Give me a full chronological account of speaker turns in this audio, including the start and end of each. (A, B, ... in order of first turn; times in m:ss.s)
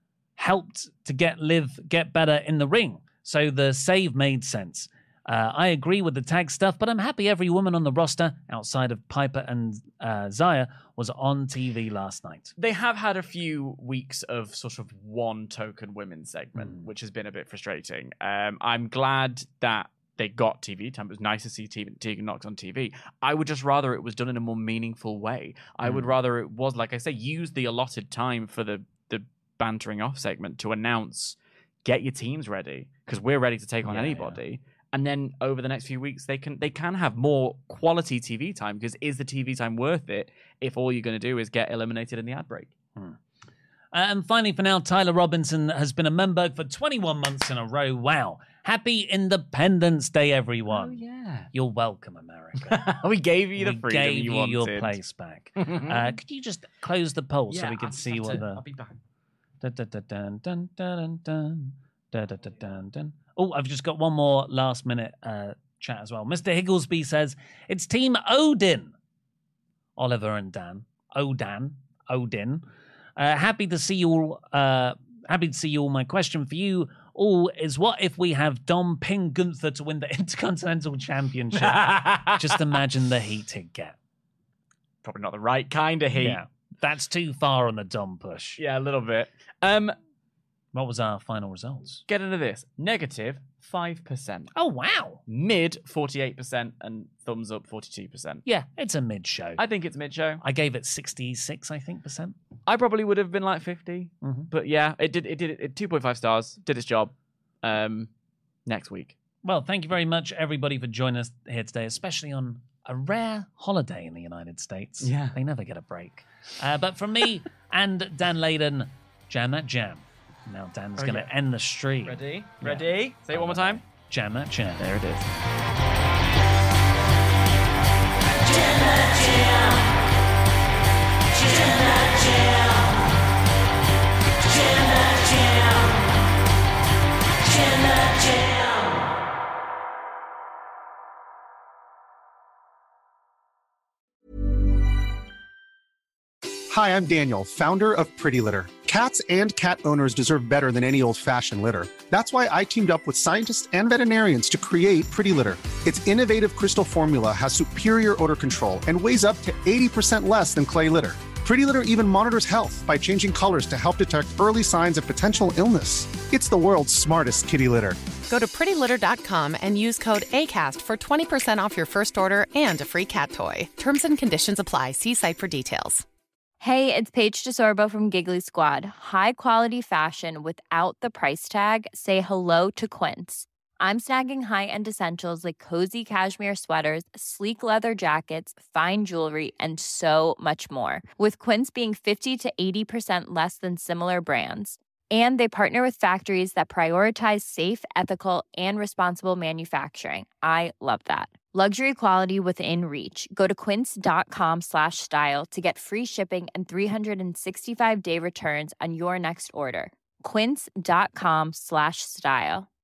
0:00.4-0:12.5 A
0:12.6-0:42.7 B
0:33.8-0:34.4 A
0:43.9-0:51.0 A
0:50.7-0:51.5 B
0:51.5-0:52.8 A
0:52.6-0:55.0 B
0:53.6-0:58.6 A
0:55.6-0:56.1 B
0:57.5-0:59.0 B
0:59.6-1:08.9 A
1:10.0-1:12.6 A
1:13.2-1:24.0 A
1:21.6-1:22.5 B
1:25.0-1:26.4 B
1:26.1-1:28.6 A
1:28.6-1:29.9 B
1:30.7-1:32.0 A
1:32.1-1:34.5 B
1:34.5-1:35.2 A
1:35.3-1:38.4 B
1:38.4-1:39.6 A
1:39.6-1:40.4 B
1:40.4-1:42.3 A
1:42.7-1:47.1 B
1:44.2-1:44.5 A
1:47.6-1:48.1 B
1:48.6-1:49.2 B
1:49.4-2:04.8 A
1:55.0-1:55.4 B
2:01.0-2:01.3 B
2:02.0-2:03.8 B
2:04.8-2:05.3 B
2:08.6-2:09.7 B
2:11.4-2:12.7 B
2:26.7-2:48.0 C
2:48.3-2:56.0 D
2:56.6-3:32.7 E